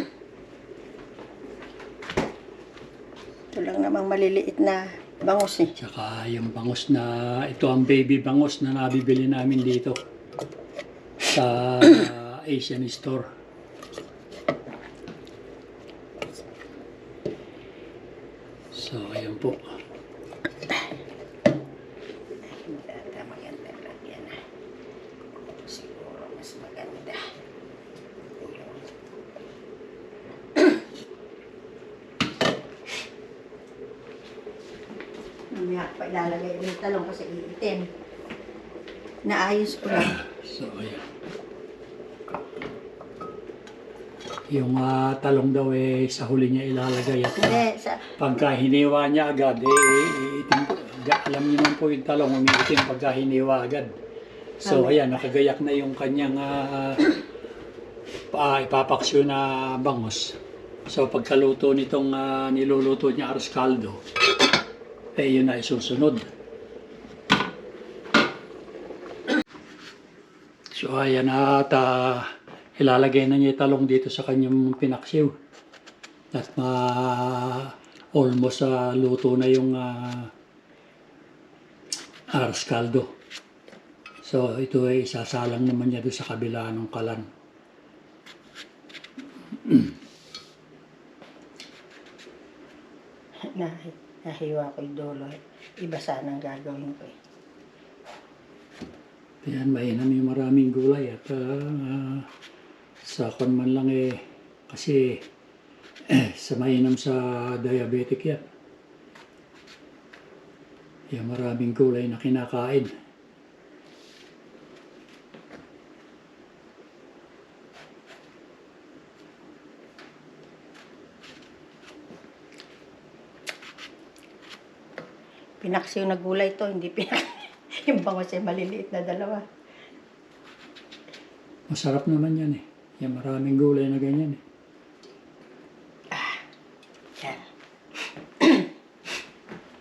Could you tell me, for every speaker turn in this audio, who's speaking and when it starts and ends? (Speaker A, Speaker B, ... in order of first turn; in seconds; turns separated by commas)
Speaker A: 3.5-5.8, Speaker B: 5.8-10.0, Speaker B: 11.3-13.3, Speaker B: 18.7-19.6, Speaker A: 22.5-24.4, Speaker A: 25.6-27.3, Speaker A: 28.4-28.9, Speaker A: 35.5-37.9, Speaker A: 39.2-40.2, Speaker B: 39.9-41.1, Speaker B: 44.5-47.6, Speaker A: 47.4-48.1, Speaker B: 48.2-53.9, Speaker B: 54.6-57.1, Speaker A: 54.6-55.2, Speaker B: 58.3-60.4, Speaker B: 60.9-64.0, Speaker B: 65.2-66.3, Speaker B: 70.8-75.3, Speaker B: 76.3-80.3, Speaker B: 82.3-83.1, Speaker B: 84.2-87.3, Speaker B: 89.6-89.9, Speaker A: 93.5-97.2, Speaker B: 99.4-102.3, Speaker B: 103.0-105.2, Speaker B: 106.1-108.5, Speaker B: 111.1-112.9, Speaker A: 125.6-129.4, Speaker B: 131.7-134.4, Speaker A: 136.1-136.4, Speaker A: 137.2-137.4, Speaker A: 138.4-138.7